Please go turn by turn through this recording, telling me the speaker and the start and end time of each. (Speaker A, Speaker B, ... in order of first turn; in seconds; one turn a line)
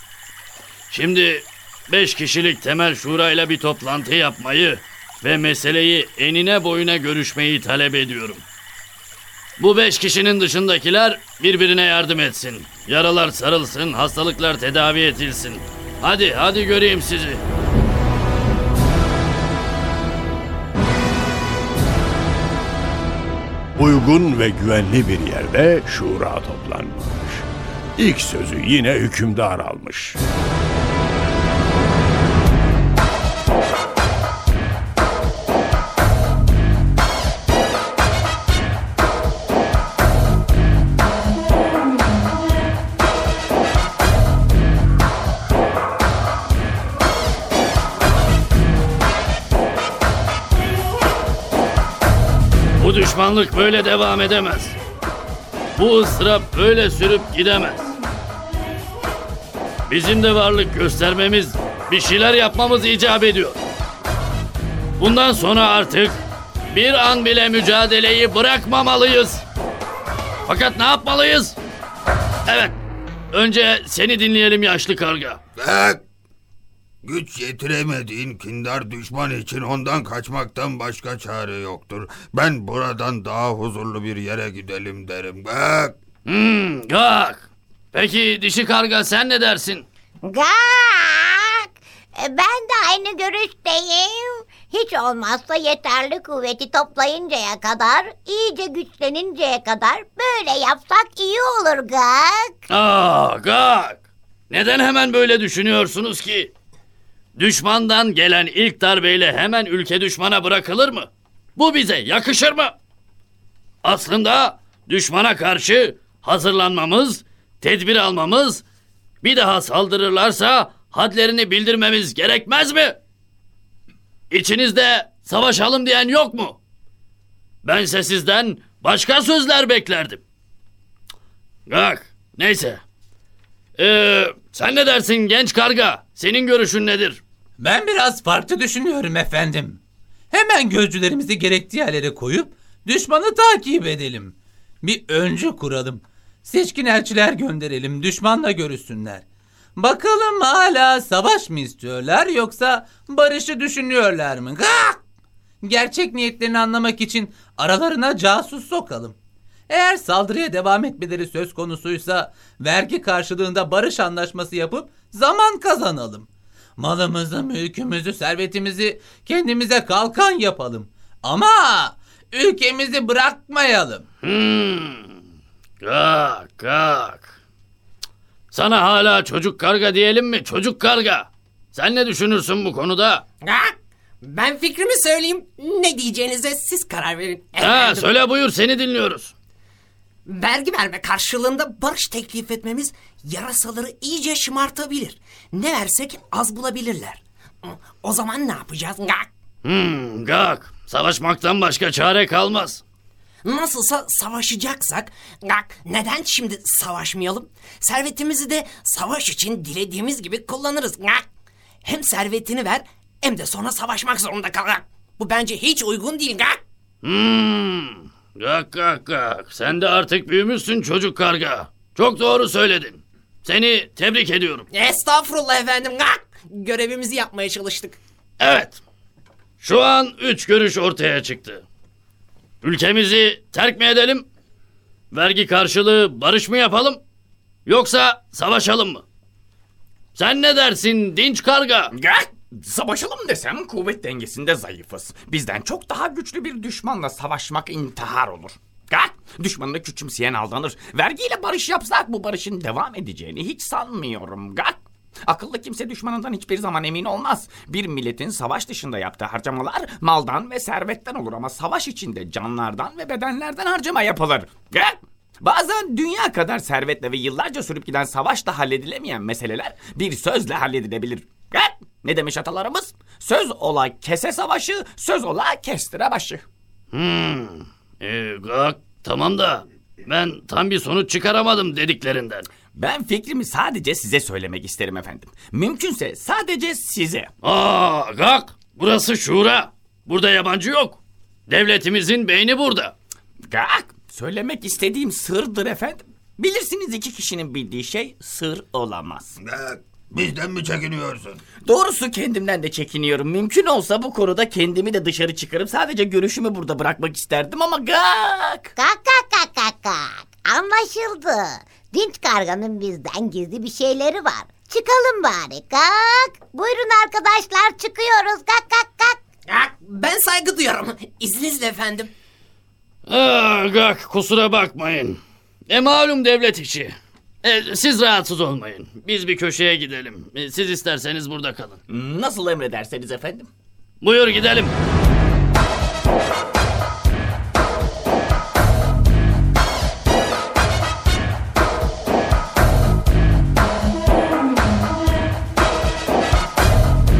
Speaker A: 0.9-8.4
Speaker A: 9.6-17.4
Speaker B: 23.8-30.2
Speaker A: 52.8-54.8
Speaker A: 55.7-57.9
Speaker A: 59.9-63.6
Speaker A: 65.0-66.2
Speaker A: 66.7-69.4
Speaker A: 70.5-71.5
Speaker A: 72.5-72.8
Speaker A: 73.3-75.4
Speaker C: 75.6-76.0
Speaker C: 77.0-86.0
Speaker A: 86.2-89.8
Speaker D: 90.2-102.6
Speaker A: 102.7-106.5
Speaker A: 107.3-112.7
Speaker A: 113.8-118.6
Speaker A: 119.2-123.0
Speaker A: 124.3-126.6
Speaker A: 127.6-130.2
Speaker A: 131.7-132.8
Speaker A: 133.8-137.2
Speaker E: 137.6-139.8
Speaker E: 140.3-149.2
Speaker E: 149.8-155.0
Speaker E: 155.6-159.2
Speaker E: 159.7-174.0
Speaker A: 174.2-175.1
Speaker A: 175.8-177.3
Speaker A: 178.5-183.2
Speaker F: 183.4-183.7
Speaker F: 184.2-188.1
Speaker A: 187.6-189.3
Speaker F: 190.3-199.3
Speaker A: 199.6-202.8
Speaker F: 203.4-211.2
Speaker F: 211.8-216.6
Speaker A: 217.0-224.7
Speaker F: 224.7-228.0
Speaker A: 228.4-228.8
Speaker A: 229.6-231.6
Speaker A: 232.6-234.2
Speaker A: 235.1-237.0
Speaker A: 237.7-239.0
Speaker A: 240.1-241.9
Speaker G: 241.9-276.4
Speaker A: 276.9-282.5
Speaker G: 282.7-287.3
Speaker A: 287.4-292.9
Speaker G: 293.5-299.3
Speaker C: 299.4-301.4
Speaker G: 301.6-308.7
Speaker D: 308.8-319.2
Speaker F: 319.5-322.1
Speaker A: 323.1-331.8
Speaker G: 331.9-333.5
Speaker A: 334.0-334.7